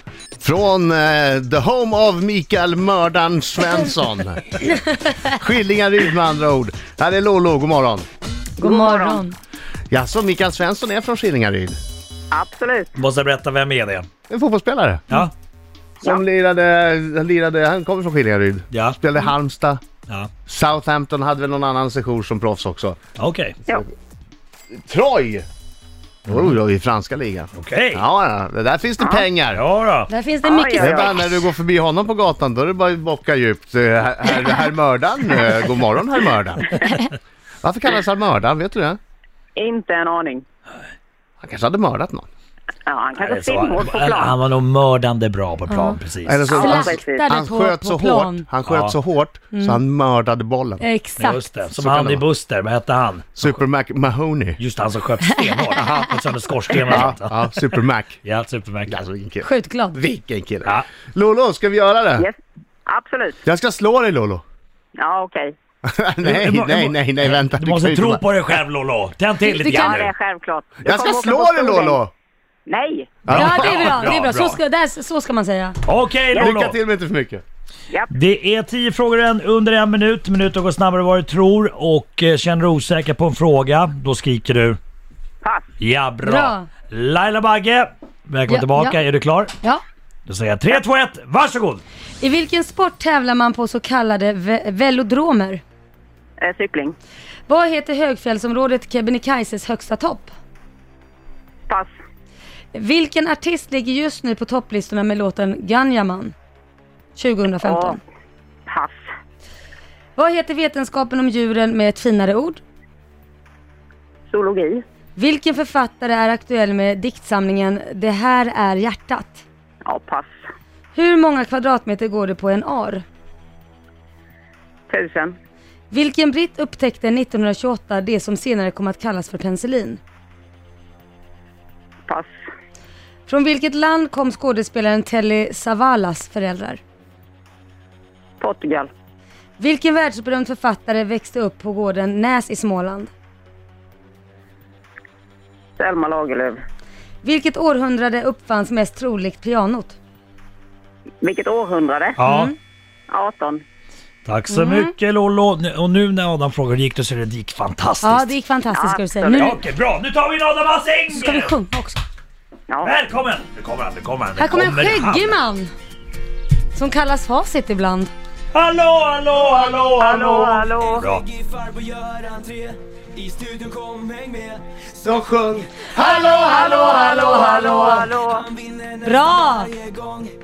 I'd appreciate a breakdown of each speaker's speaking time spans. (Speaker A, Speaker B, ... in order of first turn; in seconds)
Speaker A: 0.4-4.6, 5.2-8.1, 9.9-11.8, 14.3-15.0, 16.0-19.8, 20.5-23.0, 24.7-25.4, 26.3-29.6, 30.8-36.8, 37.6-39.0, 41.4-42.2, 46.2-50.8, 51.7-52.2, 53.4-54.6, 56.8-58.2, 58.9-62.3, 63.5-64.4, 65.8-68.2, 70.8-72.1, 73.2-73.9, 76.3-77.4, 175.0-176.7
Speaker B: 8.6-9.2, 12.3-12.9, 29.0-29.2, 30.4-31.1, 39.5-40.4, 42.9-44.3, 46.5-47.2, 62.2-63.4, 65.0-65.5, 69.6-72.0, 72.7-73.2, 96.4-97.0, 107.6-108.0, 108.7-109.0, 114.3-114.8, 119.8-120.3, 124.9-125.4, 138.4-138.9, 145.8-146.6, 151.2-152.2, 153.1-153.6, 158.7-159.5, 162.7-162.9, 170.0-171.1, 176.7-178.5
Speaker C: 8.6-9.3, 30.1-31.3, 45.7-46.0, 46.5-48.5, 49.5-49.8, 50.8-51.4, 55.5-55.9, 59.4-60.0, 69.4-70.0, 73.3-75.8, 86.2-86.7, 88.5-89.0, 92.2-95.6, 97.5-100.3, 102.7-106.3, 107.2-108.0, 110.2-112.6, 115.2-119.4, 120.9-123.0, 125.9-130.0, 133.3-136.8, 139.6-143.1, 147.2-150.0, 152.2-152.5, 154.5-154.9, 158.0-159.6, 161.1-162.0, 164.3-165.7, 166.7-168.1, 175.9-178.1, 179.0-179.8
Speaker D: 12.9-14.1, 18.7-19.0, 23.2-23.6, 27.6-28.0, 29.5-30.1, 43.2-46.6, 48.6-48.9, 51.2-53.6, 54.6-57.6, 58.2-59.0, 66.2-70.1, 73.3-74.6, 75.8-76.8, 78.1-84.8, 85.8-89.5, 90.3-91.8, 152.2-152.5, 154.2-158.3, 159.3-161.5, 162.8-165.4, 168.5-171.3
Speaker E: 171.8-172.6, 173.4-174.6